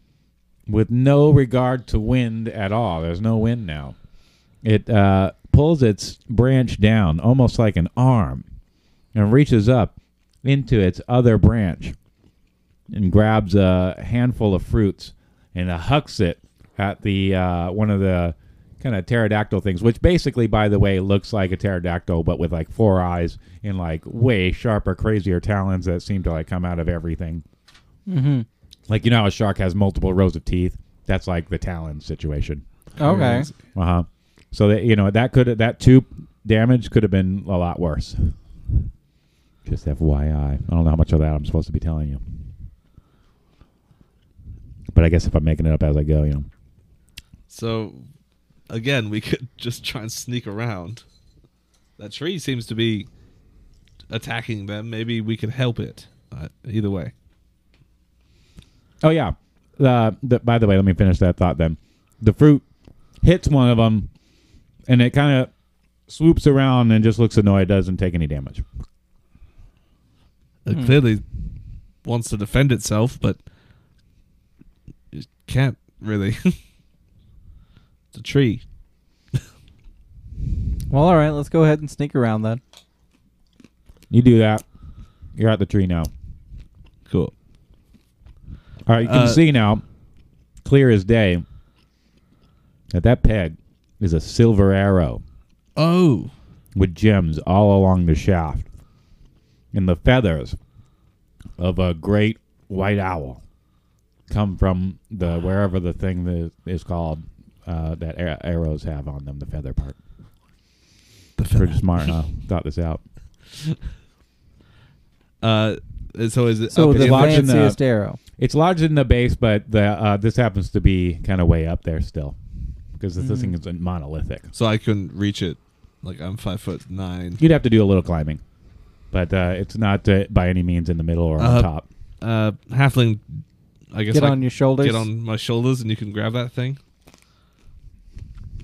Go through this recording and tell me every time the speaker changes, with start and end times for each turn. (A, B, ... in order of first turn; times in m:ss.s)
0:00.7-0:03.9 A
0:04.6-0:08.4 A
0:09.1-0:09.9 A
0:10.4-0:11.9 A
0:12.9-0:27.4 A
0:28.1-0:28.4 B
0:28.9-0:32.6 A
0:33.0-0:33.6 C
0:33.0-0:33.5 B
0:33.7-0:38.3 A
0:39.6-0:42.2 A
0:44.9-0:46.5 A
0:47.5-0:48.0 C
0:48.7-0:51.0 C
0:52.0-0:53.1 C
0:54.1-0:57.1 C
0:59.0-1:02.6 A
1:03.2-1:04.1 A
1:04.9-1:05.5 A
1:06.1-1:08.6 A
1:10.6-1:11.2 C
1:12.0-1:13.4 C
1:15.1-1:16.6 C
1:18.1-1:18.6 C
1:20.9-1:22.6 B
1:24.1-1:24.6 A
1:25.4-1:26.1 A
1:28.8-1:29.8 A
1:29.0-1:29.4 C
1:30.6-1:31.4 A
1:32.9-1:35.2 A
1:35.8-1:36.3 C
1:36.7-1:38.7 A
1:39.7-1:40.6 A
1:41.6-1:43.4 A
1:44.3-1:50.0 A
1:51.4-1:52.1 C
1:51.5-1:53.0 A
1:55.4-1:57.6 C
1:56.7-1:58.2 B
1:56.8-1:57.8 A
1:58.4-2:02.4 A
2:03.0-2:04.5 A
2:03.2-2:03.5 B
2:04.5-2:07.4 C
2:07.4-2:08.4 A
2:09.1-2:11.8 A
2:11.4-2:11.7 C
2:12.2-2:13.4 C
2:13.9-2:16.8 C
2:14.1-2:15.1 B